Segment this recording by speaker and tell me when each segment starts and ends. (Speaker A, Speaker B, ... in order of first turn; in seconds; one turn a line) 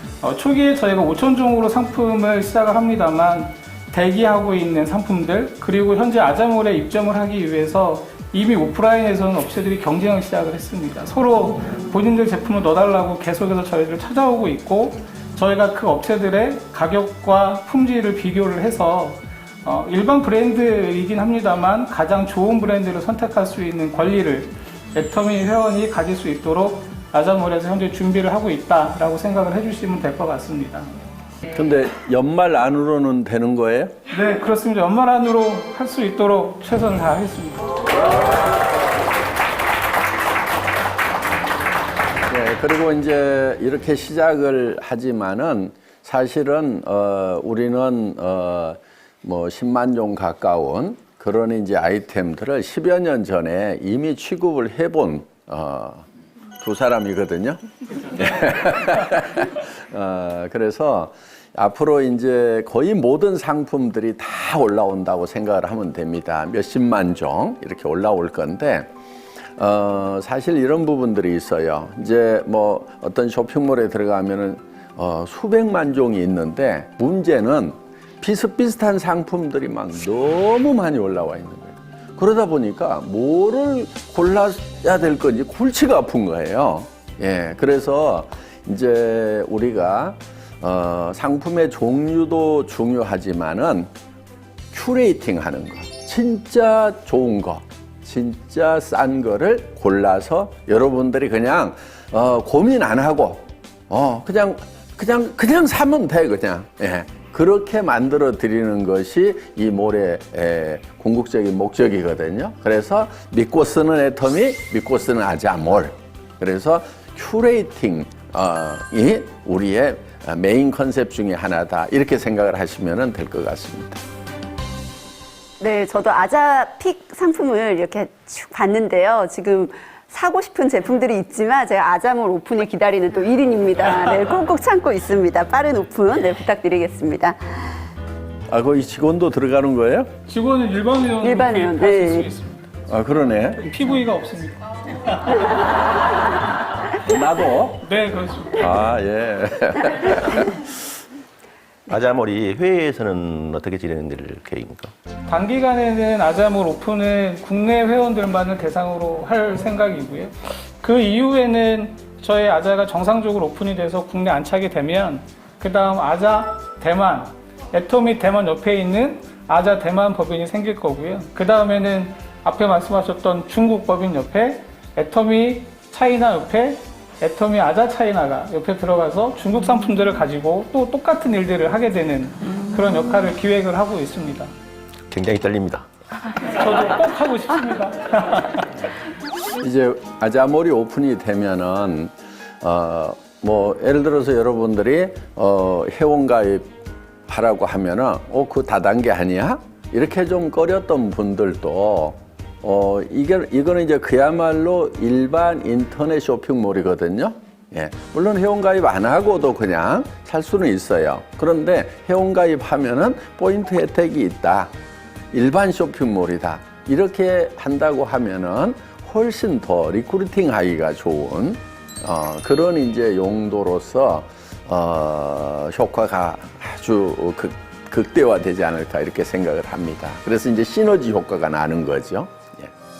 Speaker A: 0.2-30.9
Speaker B: 31.5-34.0
Speaker A: 34.1-37.6
Speaker B: 42.3-56.0
Speaker B: 56.6-57.6
Speaker B: 58.1-68.9
Speaker B: 69.6-93.9
Speaker B: 94.7-124.0
Speaker C: 125.6-137.6
Speaker B: 138.5-140.1
Speaker A: 140.3-142.7
Speaker C: 141.2-142.3
Speaker B: 142.9-143.6
Speaker A: 143.6-145.8
Speaker B: 147.0-147.8
Speaker A: 147.8-148.6
Speaker B: 148.5-150.7
Speaker D: 151.9-154.9
Speaker A: 155.3-184.5
Speaker D: 185.1-185.9
Speaker A: 186.4-188.7
Speaker B: 189.6-196.7
Speaker B: 197.3-214.7
Speaker B: 215.3-232.7